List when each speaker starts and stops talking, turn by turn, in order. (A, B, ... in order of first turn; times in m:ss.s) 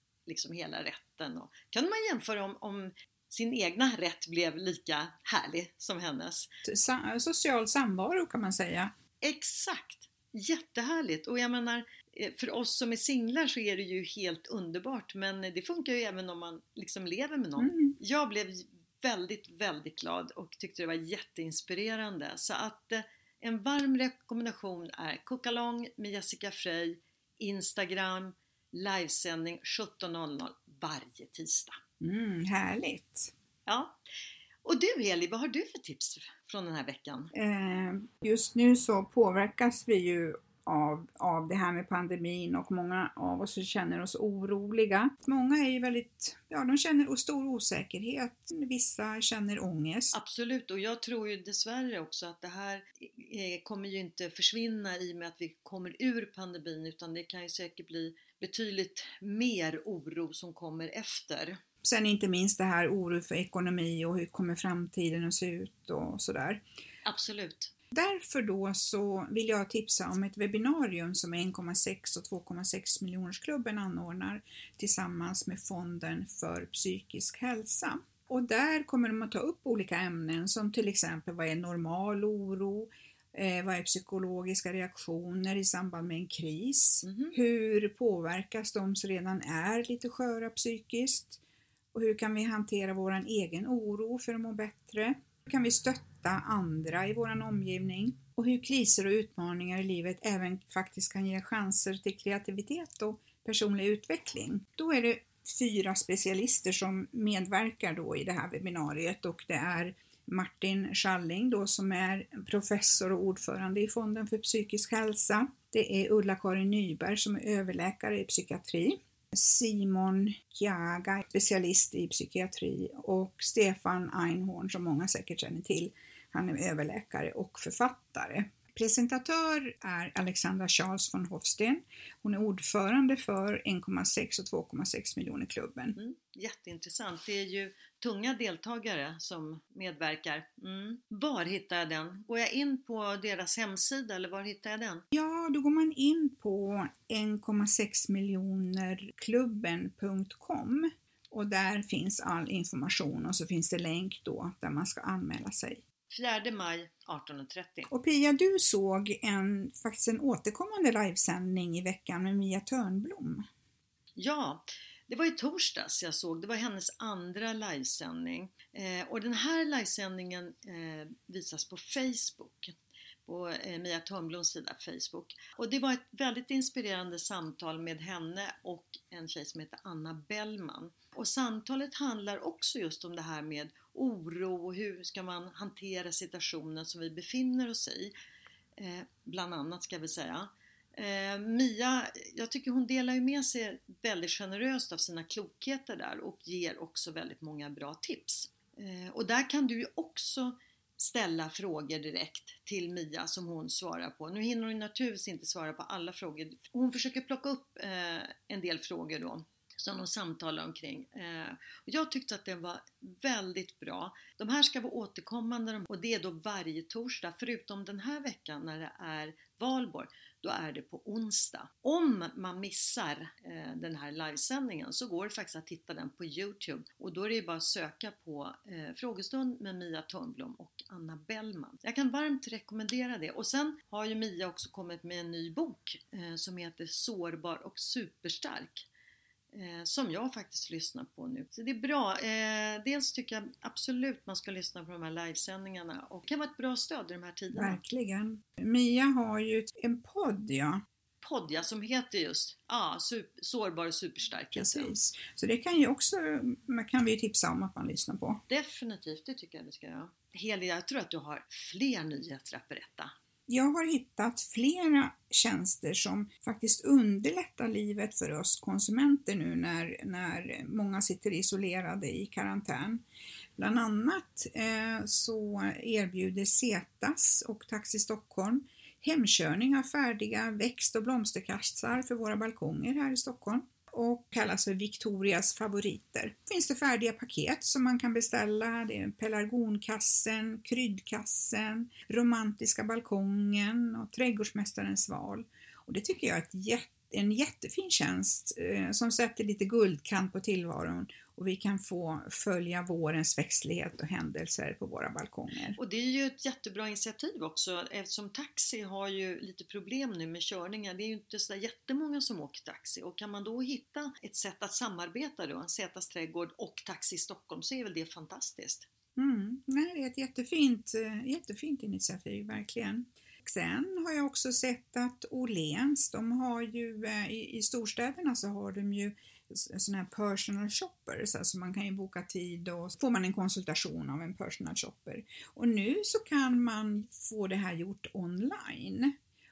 0:00.2-0:06.5 A
0:06.6-0:08.9 B
0:09.2-0:31.8 A
0:17.6-0:18.0 B
0:32.0-0:33.3 B
0:33.6-0:34.0 A
0:34.6-0:37.3 A
0:37.3-0:50.1 B
0:50.1-1:01.6 A
1:01.8-1:06.6 B
1:07.0-1:07.7 A
1:07.9-1:31.4 B
1:27.0-1:27.3 A
1:31.9-2:16.0 B
2:16.0-2:25.0 A
2:25.1-2:35.8 B
2:36.1-2:37.9 A
2:37.9-2:43.4 B
2:44.2-3:08.1 A
3:08.8-3:58.9 A
3:59.5-4:07.8 A
4:07.5-4:10.8 B
4:11.2-4:15.0 A
4:14.5-4:18.4 B
4:18.5-4:23.1 A
4:23.5-4:33.0 B
4:33.6-5:05.8 B
5:05.8-5:18.9 A
5:19.2-5:39.2 B